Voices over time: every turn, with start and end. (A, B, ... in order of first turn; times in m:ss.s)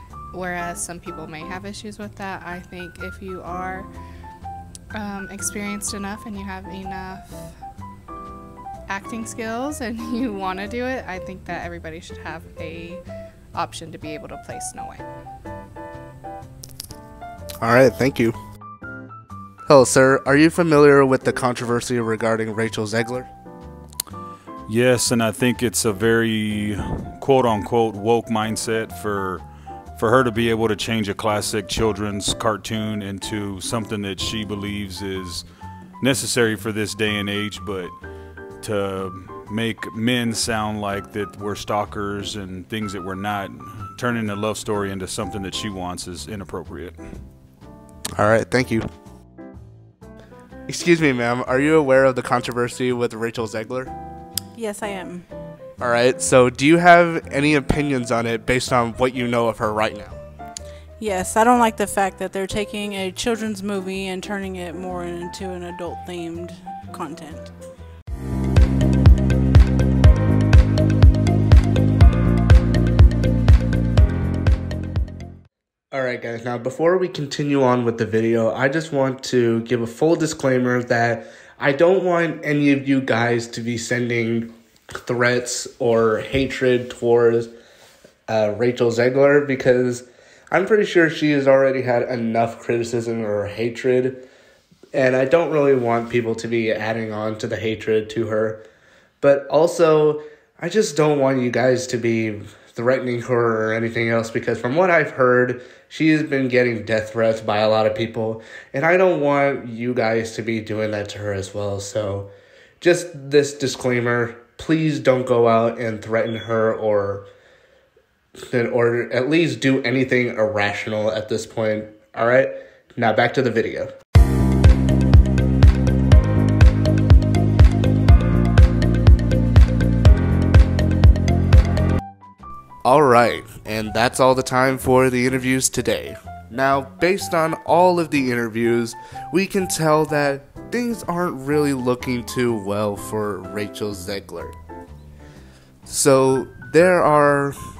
0:00.3-0:03.9 A
0:04.9-0:07.5 A
0:08.9-0:13.0 A
0:13.5-0:15.0 A
0:17.6-0:18.4 B
0:19.6-0:23.3 B
0:24.7-0:35.5 C
0:36.0-0:38.0 C
0:38.6-0:47.2 C
0:48.2-0:48.8 B
0:50.7-0:53.9 B
0:54.5-0:55.3 D
0:55.8-1:00.2 B
1:01.0-1:07.5 D
1:15.9-1:24.5 B
1:25.0-1:27.5 B
1:28.3-1:34.2 B
1:34.9-1:38.6 B
1:39.2-1:52.3 B
1:52.8-1:57.2 B
1:58.4-2:03.9 B
2:12.8-2:24.5 B
2:25.8-2:27.6 B